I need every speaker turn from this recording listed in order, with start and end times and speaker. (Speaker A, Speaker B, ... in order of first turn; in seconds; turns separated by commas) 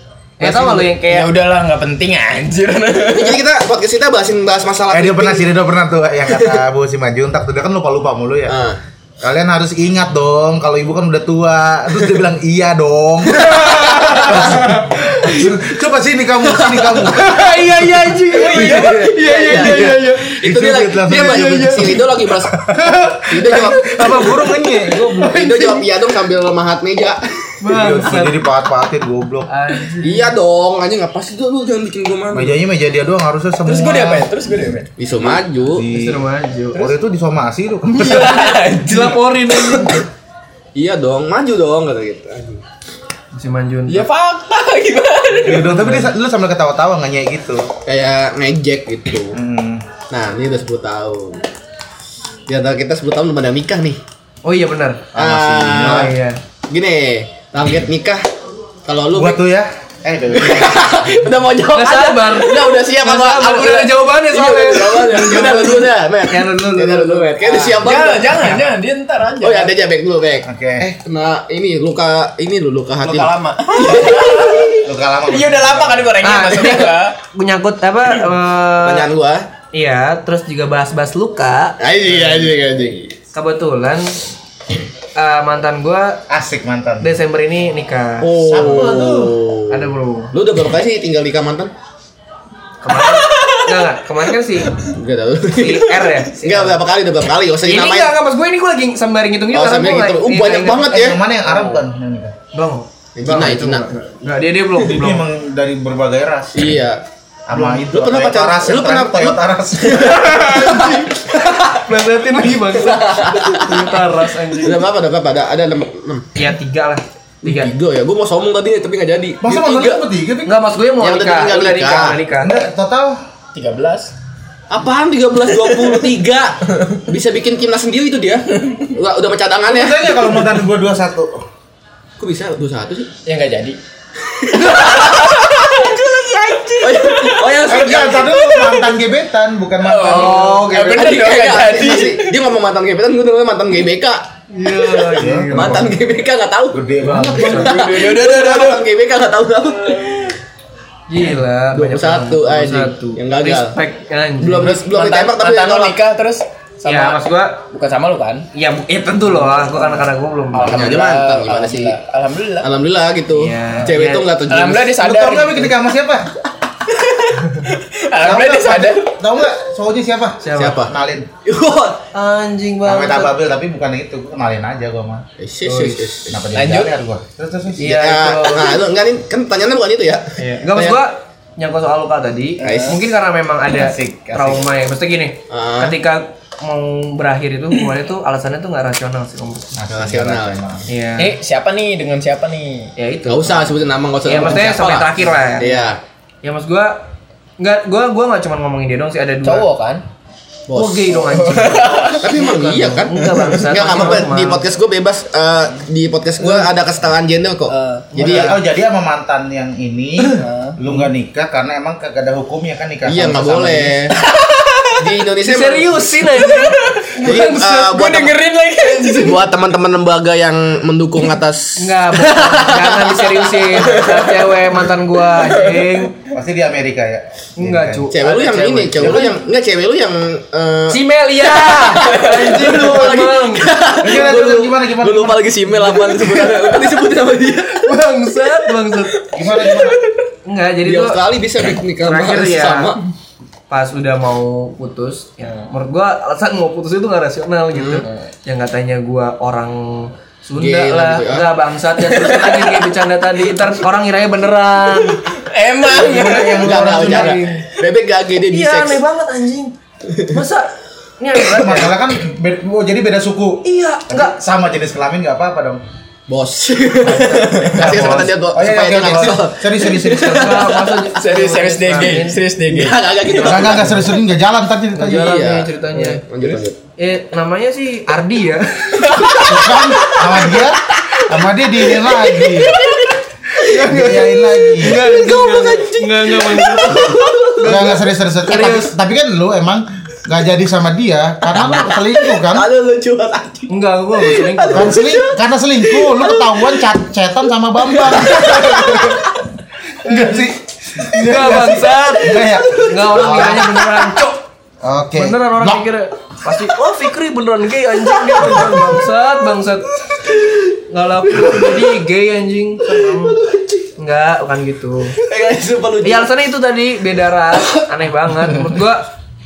Speaker A: 0.4-0.9, Speaker B: 0.4-1.3, Speaker C: 1.1-3.4, Speaker A: 3.1-5.5, Speaker D: 4.9-8.5, Speaker A: 6.3-6.6, Speaker A: 8.5-8.8, Speaker D: 9.2-22.0, Speaker A: 13.4-14.6, Speaker B: 13.5-15.3, Speaker A: 16.6-17.0, Speaker B: 16.9-20.4, Speaker C: 18.3-19.3, Speaker A: 18.5-22.6, Speaker B: 21.1-22.0, Speaker B: 22.6-25.9, Speaker A: 23.3-24.4, Speaker D: 23.8-25.4, Speaker A: 25.1-27.5, Speaker B: 27.6-28.4, Speaker D: 27.7-29.5, Speaker B: 29.5-30.3, Speaker A: 30.0-32.6, Speaker D: 32.3-34.3, Speaker C: 33.6-34.9, Speaker A: 35.0-35.9, Speaker D: 35.7-36.2, Speaker B: 35.9-36.9, Speaker D: 36.7-38.5, Speaker B: 37.9-40.0, Speaker C: 38.0-40.0, Speaker A: 40.7-42.6, Speaker B: 43.3-44.1, Speaker C: 43.9-45.8, Speaker D: 45.4-47.7, Speaker B: 45.6-46.1, Speaker A: 47.8-49.4, Speaker D: 49.3-49.8, Speaker A: 50.1-51.4, Speaker A: 52.5-54.0, Speaker B: 54.4-55.1, Speaker D: 55.1-56.1, Speaker A: 55.1-56.1, Speaker B: 55.8-56.4, Speaker A: 56.7-58.2, Speaker A: 58.9-59.4, Speaker D: 59.1-61.0, Speaker A: 60.3-68.6, Speaker B: 61.7-68.6, Speaker C: 67.7-69.7, Speaker A: 69.4-74.7, Speaker D: 70.4-70.9, Speaker C: 73.0-77.2, Speaker D: 74.8-76.2, Speaker B: 76.2-79.1, Speaker A: 78.8-79.5, Speaker B: 79.7-82.5, Speaker A: 81.8-83.1, Speaker B: 83.3-84.2, Speaker B: 85.2-86.2, Speaker D: 86.3-87.1, Speaker B: 87.0-89.0, Speaker A: 88.2-91.7, Speaker D: 88.4-89.4, Speaker B: 89.7-90.3, Speaker B: 92.8-94.8, Speaker C: 93.0-93.6, Speaker A: 94.9-98.1, Speaker B: 95.5-96.8, Speaker B: 97.6-100.9, Speaker A: 99.5-101.2, Speaker D: 100.7-102.3, Speaker B: 102.5-105.2, Speaker A: 103.2-103.9, Speaker D: 104.8-106.8, Speaker A: 106.5-107.0, Speaker D: 107.5-110.3, Speaker A: 107.5-111.8, Speaker B: 110.0-111.1, Speaker B: 111.8-114.8, Speaker A: 112.6-114.0, Speaker A: 114.5-116.3, Speaker B: 116.3-117.7, Speaker A: 117.4-120.0, Speaker D: 119.4-120.5, Speaker B: 120.4-122.5, Speaker A: 121.0-122.2, Speaker D: 122.4-123.2, Speaker C: 123.5-124.1, Speaker A: 124.7-130.3, Speaker C: 125.5-126.0, Speaker D: 129.7-131.4, Speaker A: 132.2-133.1, Speaker C: 133.2-133.8, Speaker C: 134.5-139.0, Speaker B: 134.5-135.1, Speaker A: 136.8-138.4, Speaker D: 137.6-141.1, Speaker C: 139.8-142.4, Speaker B: 140.1-140.7, Speaker A: 140.3-150.3, Speaker B: 144.5-145.9, Speaker D: 145.1-145.9, Speaker D: 146.7-147.8, Speaker B: 147.1-147.6, Speaker C: 147.2-148.8, Speaker B: 151.1-154.8, Speaker A: 151.7-153.8, Speaker A: 154.4-156.0, Speaker C: 154.6-157.2, Speaker B: 156.8-157.6, Speaker C: 157.7-158.5, Speaker B: 158.5-160.9, Speaker C: 159.7-159.9, Speaker C: 160.5-162.7, Speaker A: 160.6-162.0, Speaker A: 162.6-165.0, Speaker B: 163.3-164.3, Speaker C: 164.5-165.8, Speaker D: 165.0-166.3, Speaker C: 166.8-169.1, Speaker D: 168.2-171.3, Speaker B: 170.4-170.8, Speaker A: 170.5-170.9, Speaker A: 171.4-172.0, Speaker B: 172.1-173.3, Speaker D: 172.8-175.2, Speaker A: 175.4-176.4, Speaker B: 175.6-176.2, Speaker D: 176.3-178.0, Speaker C: 176.5-177.0, Speaker B: 177.8-178.8, Speaker A: 177.8-181.0, Speaker B: 180.4-189.8, Speaker C: 182.6-183.0, Speaker A: 182.6-183.0, Speaker D: 183.7-184.7, Speaker A: 185.5-186.0, Speaker D: 189.7-190.9, Speaker A: 189.9-190.7, Speaker B: 190.9-191.3, Speaker C: 191.2-192.9, Speaker B: 192.9-193.7, Speaker A: 193.2-196.0, Speaker B: 194.2-195.8, Speaker B: 196.4-197.1, Speaker B: 197.6-199.7, Speaker C: 199.4-200.0, Speaker A: 200.7-201.4, Speaker B: 200.7-204.6, Speaker C: 201.1-202.2, Speaker A: 202.2-208.5, Speaker C: 207.7-208.1, Speaker B: 208.1-208.6, Speaker D: 208.2-214.0, Speaker C: 210.3-210.8, Speaker A: 213.0-214.1, Speaker C: 214.2-215.1, Speaker A: 215.0-216.0, Speaker B: 215.4-218.0, Speaker C: 216.4-219.5, Speaker A: 217.2-218.4, Speaker A: 219.1-224.5, Speaker B: 221.8-226.2, Speaker C: 225.4-226.0, Speaker D: 226.3-228.1, Speaker B: 227.6-229.3, Speaker A: 228.1-237.9, Speaker D: 228.9-229.4, Speaker B: 230.9-234.2, Speaker D: 234.0-235.8, Speaker C: 235.9-237.0, Speaker B: 237.8-239.2, Speaker D: 239.3-240.0, Speaker C: 239.5-240.1, Speaker B: 240.4-241.2, Speaker A: 240.8-243.0, Speaker B: 242.0-242.9, Speaker B: 243.7-255.2, Speaker A: 247.7-248.1, Speaker A: 250.6-251.5, Speaker C: 252.1-252.9, Speaker C: 255.3-256.9, Speaker D: 255.9-257.4, Speaker A: 256.2-259.0, Speaker B: 256.8-257.7, Speaker B: 258.5-261.9, Speaker D: 261.5-265.8, Speaker B: 263.6-264.4, Speaker A: 266.3-271.0, Speaker D: 267.1-270.6, Speaker B: 267.2-268.3, Speaker C: 267.5-268.1, Speaker B: 270.1-272.4, Speaker C: 271.0-273.4, Speaker A: 272.7-274.1, Speaker D: 273.4-275.4, Speaker B: 274.9-276.2, Speaker A: 275.1-276.8, Speaker B: 277.0-279.3, Speaker C: 279.0-281.2, Speaker D: 279.4-282.8, Speaker C: 281.8-283.1, Speaker B: 283.6-288.9, Speaker D: 283.7-285.1, Speaker A: 284.9-287.9, Speaker C: 286.6-287.2, Speaker D: 287.6-292.7, Speaker A: 291.4-296.8, Speaker B: 293.7-295.0, Speaker D: 294.7-298.6, Speaker A: 297.9-299.2, Speaker B: 298.3-299.2, Speaker D: 300.0-303.8, Speaker B: 300.1-300.4, Speaker B: 301.1-304.4, Speaker A: 303.1-303.9, Speaker D: 304.8-305.8, Speaker B: 305.1-309.9, Speaker A: 308.3-308.8, Speaker A: 310.2-310.6, Speaker B: 310.9-313.4, Speaker A: 311.3-311.9, Speaker A: 312.9-313.9, Speaker B: 314.0-315.1, Speaker A: 315.2-316.3, Speaker B: 316.0-319.1